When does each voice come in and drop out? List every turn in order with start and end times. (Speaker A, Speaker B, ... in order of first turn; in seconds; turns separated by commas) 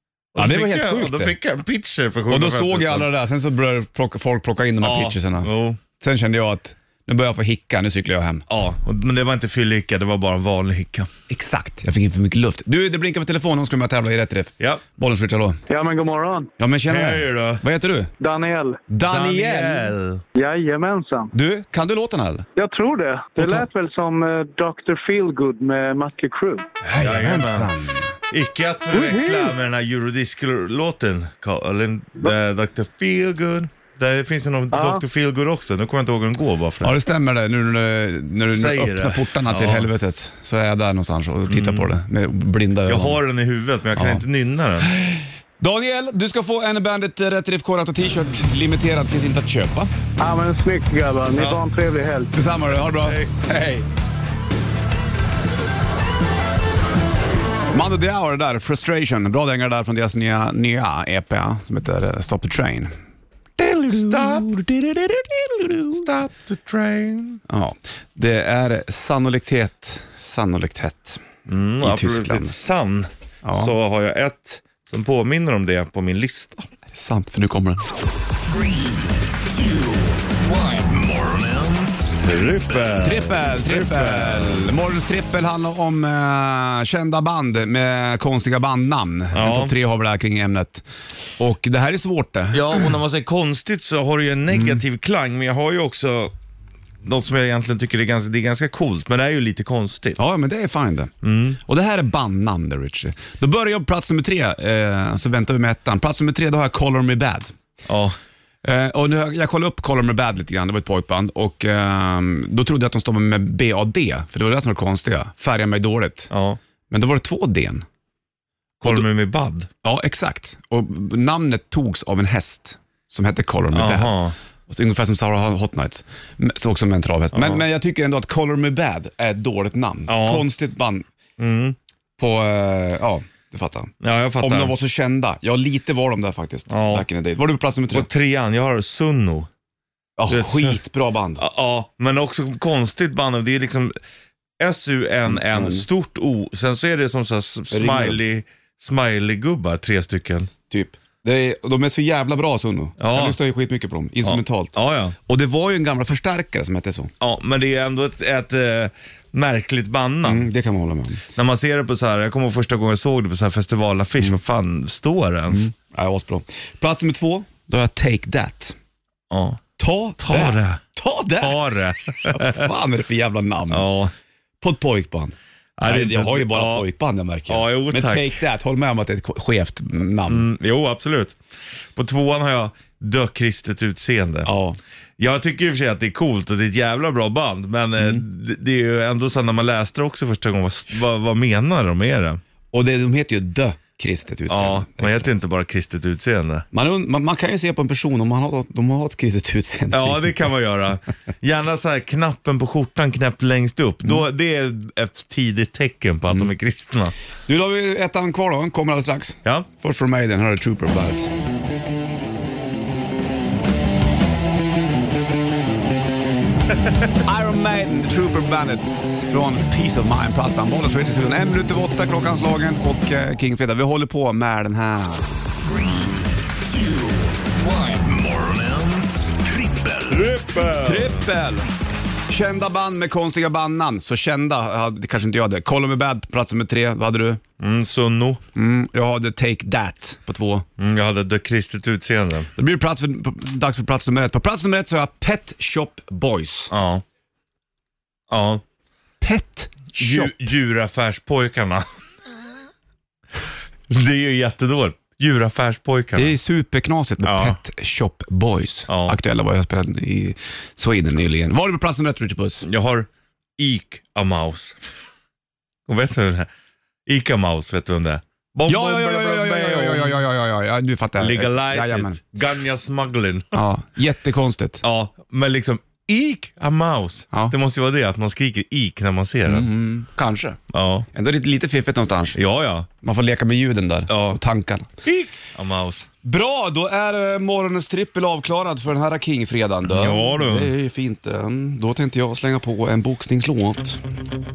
Speaker A: 0.3-3.1, Speaker B: 0.3-1.4, Speaker B: 2.3-8.4, Speaker A: 4.8-5.8, Speaker A: 8.5-11.1, Speaker B: 11.3-15.6, Speaker C: 15.7-16.5, Speaker B: 16.6-18.1, Speaker A: 16.9-17.6, Speaker C: 18.2-18.8, Speaker B: 18.9-19.9, Speaker A: 19.1-20.2, Speaker C: 20.4-21.3, Speaker B: 21.3-22.5, Speaker C: 22.6-26.7, Speaker B: 23.4-23.7, Speaker B: 26.8-28.1, Speaker A: 26.9-27.7, Speaker A: 28.3-37.0, Speaker C: 28.9-29.5, Speaker C: 34.7-35.0, Speaker B: 36.8-43.2, Speaker A: 38.5-39.9, Speaker A: 41.5-41.9, Speaker A: 42.9-44.9, Speaker B: 44.0-44.2, Speaker B: 44.8-49.9, Speaker C: 50.2-52.3, Speaker A: 51.3-51.6, Speaker B: 52.3-53.9, Speaker A: 52.8-53.3, Speaker B: 57.7-62.9, Speaker B: 63.6-66.0, Speaker A: 63.9-64.5, Speaker A: 65.9-67.4, Speaker B: 67.5-71.2, Speaker A: 71.5-76.7, Speaker B: 71.8-72.6, Speaker B: 73.4-73.7, Speaker B: 76.9-77.8, Speaker D: 79.5-82.8, Speaker A: 82.2-84.7, Speaker B: 83.0-90.8, Speaker A: 89.3-89.7, Speaker B: 91.4-92.9, Speaker A: 92.5-96.3, Speaker B: 94.5-94.8, Speaker A: 97.0-100.2, Speaker B: 100.2-101.1, Speaker A: 101.2-101.6, Speaker B: 101.6-107.5, Speaker A: 107.8-108.2, Speaker B: 108.6-116.3, Speaker A: 116.3-116.6, Speaker B: 116.9-117.8, Speaker A: 118.8-119.7, Speaker B: 119.8-131.1, Speaker A: 123.7-124.3, Speaker A: 127.3-127.6, Speaker A: 130.1-130.5, Speaker A: 131.4-131.8, Speaker B: 132.2-138.1, Speaker A: 134.0-134.8, Speaker A: 136.7-137.1, Speaker A: 137.9-139.5, Speaker B: 140.2-141.4, Speaker A: 140.3-140.8, Speaker A: 141.4-143.9, Speaker A: 144.6-150.5, Speaker B: 145.3-145.8, Speaker B: 147.7-148.2, Speaker B: 150.7-157.1, Speaker A: 153.0-153.4, Speaker A: 154.2-155.1, Speaker A: 157.2-160.5, Speaker B: 160.2-161.2, Speaker A: 161.3-165.7, Speaker B: 165.5-168.8, Speaker A: 169.3-169.6, Speaker B: 169.8-171.6, Speaker A: 170.2-170.8, Speaker A: 171.4-172.7, Speaker B: 172.2-173.9, Speaker A: 173.7-174.1, Speaker B: 174.6-180.5, Speaker A: 175.8-176.9, Speaker A: 177.5-178.4, Speaker A: 180.3-181.4, Speaker A: 181.9-184.5, Speaker B: 184.4-184.8, Speaker A: 185.2-192.4, Speaker B: 192.7-195.3, Speaker A: 194.5-196.7, Speaker B: 196.7-200.5, Speaker A: 199.9-207.1, Speaker B: 207.5-211.3, Speaker B: 217.2-225.4, Speaker D: 226.6-230.3, Speaker A: 230.1-231.2, Speaker B: 230.8-231.7, Speaker B: 232.3-237.4, Speaker A: 237.6-238.4, Speaker B: 238.5-240.7, Speaker A: 240.8-242.5, Speaker B: 242.6-246.7, Speaker A: 246.7-247.0, Speaker A: 248.3-248.6, Speaker B: 249.2-250.3, Speaker A: 250.0-251.9, Speaker A: 253.9-256.4, Speaker B: 256.1-262.7, Speaker A: 257.2-257.6, Speaker A: 258.9-259.2, Speaker A: 262.6-264.8, Speaker A: 265.9-266.5, Speaker A: 267.1-270.2, Speaker B: 268.7-272.2, Speaker A: 271.2-273.6, Speaker B: 273.5-274.8, Speaker A: 274.8-279.7, Speaker B: 279.4-280.6, Speaker A: 280.7-281.1, Speaker B: 281.1-282.4, Speaker A: 282.3-282.9, Speaker B: 283.0-284.9, Speaker A: 284.1-284.4, Speaker A: 285.0-286.1, Speaker B: 286.2-294.0, Speaker A: 289.8-290.7